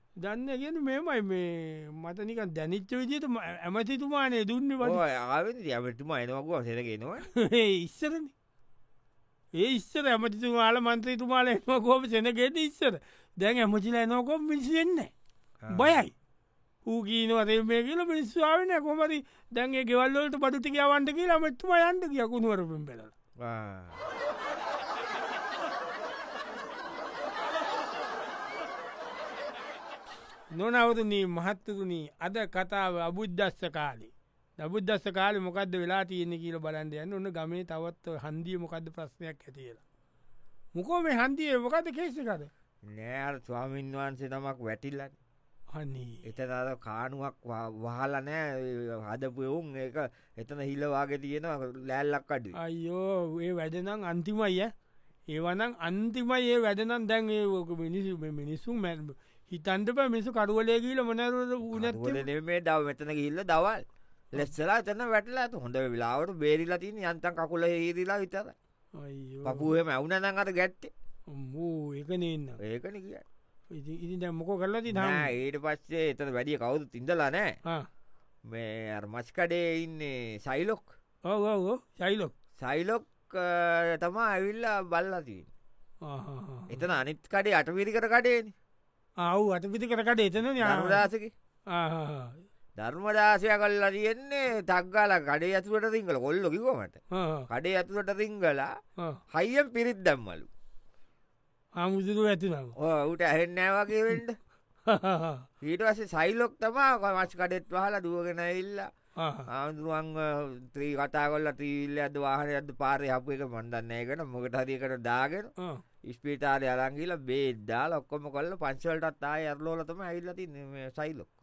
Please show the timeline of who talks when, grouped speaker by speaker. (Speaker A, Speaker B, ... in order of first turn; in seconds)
Speaker A: 0.2-5.0, 7.3-8.3, 9.6-15.1, 15.7-16.1, 16.9-23.1, 30.5-39.8, 40.8-42.5, 45.7-46.2, 52.6-54.7, 55.3-62.2, 69.0-69.7, 71.3-72.6, 73.7-75.3, 81.3-82.3, 86.0-86.7, 89.2-91.0, 91.7-92.4, 97.1-97.5, 101.8-102.8, 104.9-105.4, 109.2-109.5
Speaker B: 4.8-7.3, 15.6-16.0, 23.4-24.0, 42.9-45.2, 46.2-52.5, 61.7-68.5, 69.5-70.9, 72.6-73.2, 74.9-77.5, 78.5-80.9, 82.6-85.5, 86.7-88.5, 90.6-91.3, 92.8-97.0, 97.5-98.7, 99.3-100.5, 102.8-104.4, 105.6-108.9, 109.5-115.5, 116.1-121.3